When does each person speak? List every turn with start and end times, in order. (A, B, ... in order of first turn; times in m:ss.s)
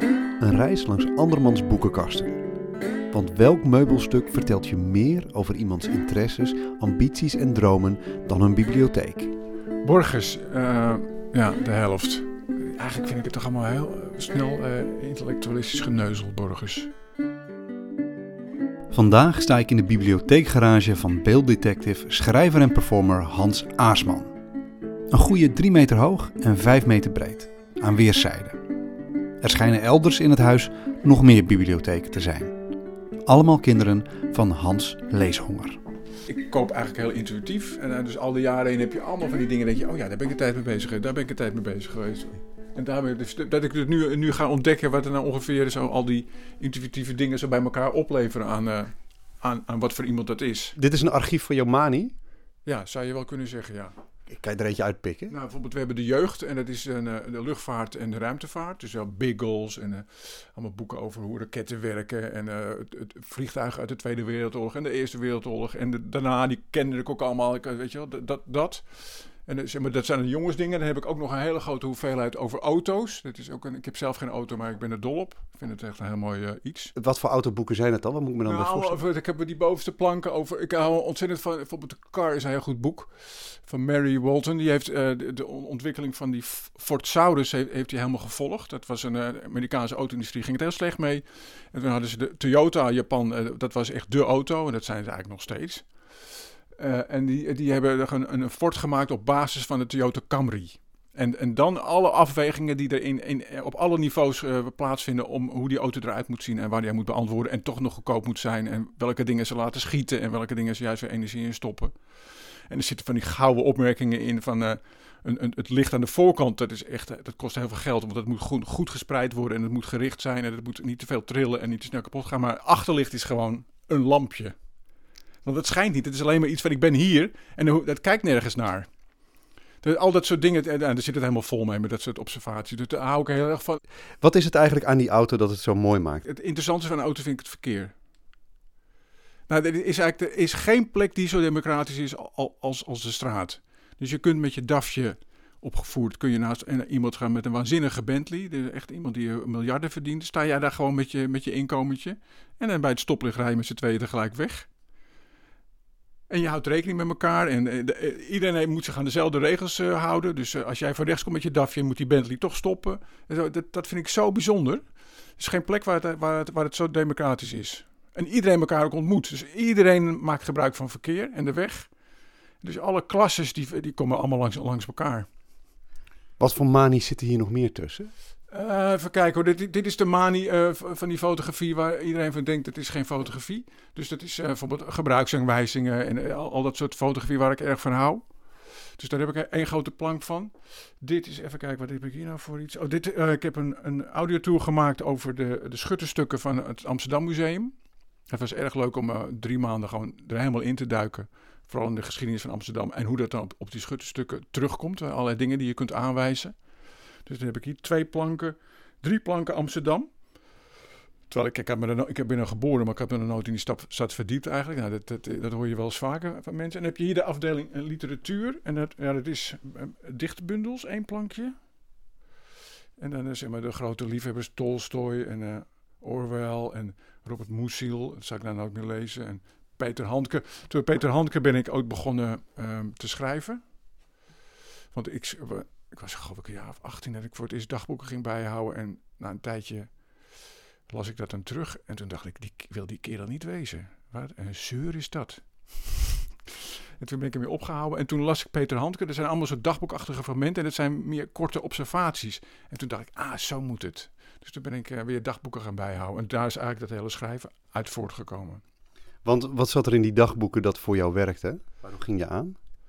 0:00.4-0:02.4 A
0:03.1-0:09.3 A
0:09.8-0:16.9 B
0:18.9-0:24.3 A
0:25.1-0:28.6 A
0:29.4-0:32.5 A
0:33.2-0:35.8 A
0:36.3-0:50.8 B
0:50.8-0:52.1 A
0:52.6-0:53.9 B
0:54.3-0:55.3 A
0:55.3-1:16.9 B
1:17.0-1:19.0 A
1:18.4-1:35.9 B
1:36.7-2:04.5 B
2:05.4-2:08.9 B
2:09.8-2:13.8 B
2:14.2-2:16.2 A
2:16.2-2:17.9 B
2:19.5-2:34.7 B
2:36.3-2:44.8 B
2:45.4-2:51.9 B
2:52.6-2:55.3 B
2:56.4-2:58.1 A
2:58.5-3:08.3 B
3:09.0-3:17.7 B
3:18.3-3:26.6 B
3:27.2-3:30.1 B
3:31.3-3:41.5 B
3:43.0-3:53.6 B
3:54.9-4:00.0 B
4:00.9-4:18.6 B
4:19.2-4:22.6 A